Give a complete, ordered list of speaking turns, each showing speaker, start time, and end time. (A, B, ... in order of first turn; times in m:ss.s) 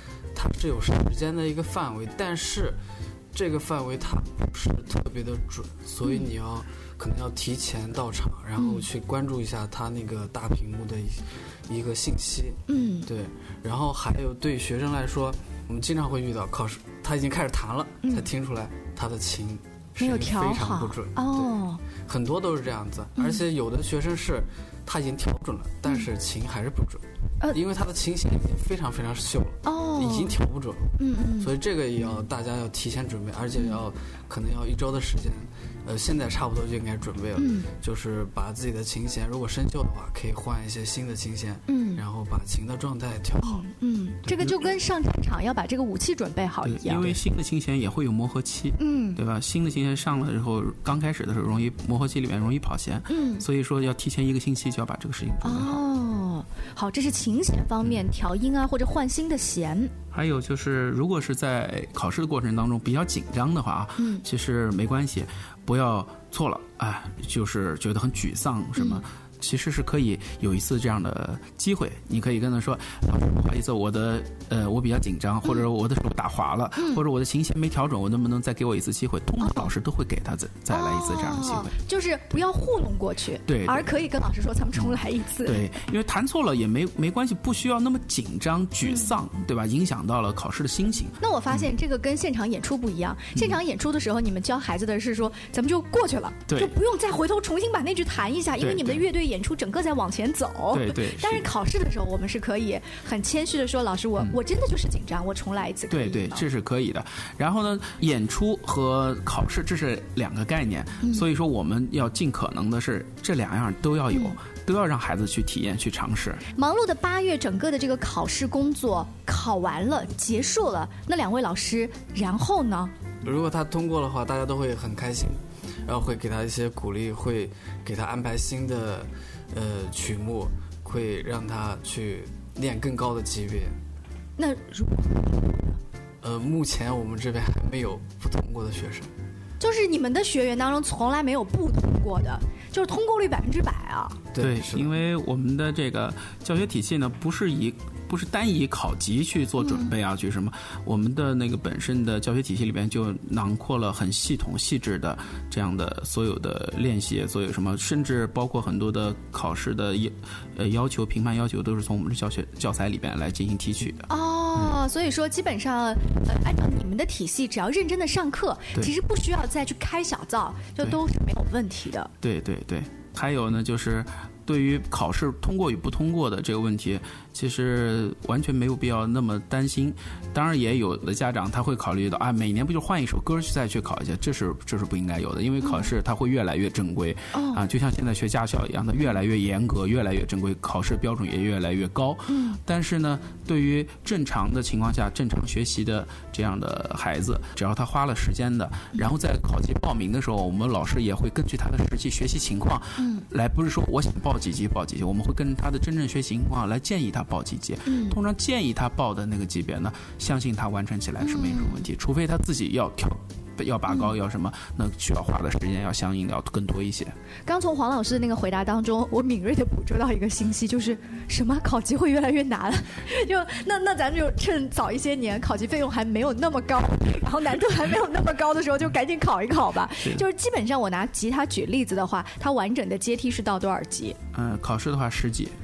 0:00.3-0:02.8 A
0:03.3-0:43.6 A
0:06.0-0:06.3 B
0:08.6-0:08.9 B
0:12.7-0:13.1 B
0:20.0-0:21.8 B
0:23.2-0:23.4 B
0:29.6-0:30.4 B
0:31.0-0:31.5 B
0:37.4-0:37.7 B
0:41.7-0:42.0 B
0:43.4-0:47.2 B
0:46.6-0:55.8 C
0:48.8-0:49.2 B
0:53.1-0:53.5 B
0:55.4-0:59.9 B
1:00.1-1:21.7 C
1:04.0-1:04.2 B
1:08.8-1:09.0 B
1:16.8-1:17.0 B
1:19.4-1:19.7 B
1:20.7-1:25.6 B
1:23.5-1:23.9 C
1:24.8-1:31.7 C
1:28.8-1:29.1 B
1:31.2-1:46.4 B
1:38.6-1:39.0 C
1:40.7-1:41.5 C
1:45.9-1:56.4 C
1:54.1-1:54.4 B
1:56.6-2:02.9 B
2:03.2-2:13.8 A
2:14.4-2:15.8 B
2:16.2-2:19.1 A
2:19.6-2:24.3 B
2:24.3-2:24.9 A
2:24.4-2:44.7 C
2:29.6-2:29.9 B
2:44.1-2:52.1 B
2:52.2-3:37.2 C
3:05.6-3:05.9 B
3:07.3-3:07.6 B
3:12.3-3:12.6 B
3:23.0-3:23.2 B
3:27.9-3:28.2 B
3:31.2-3:31.9 B
3:37.5-3:54.2 B
3:54.3-3:55.6 C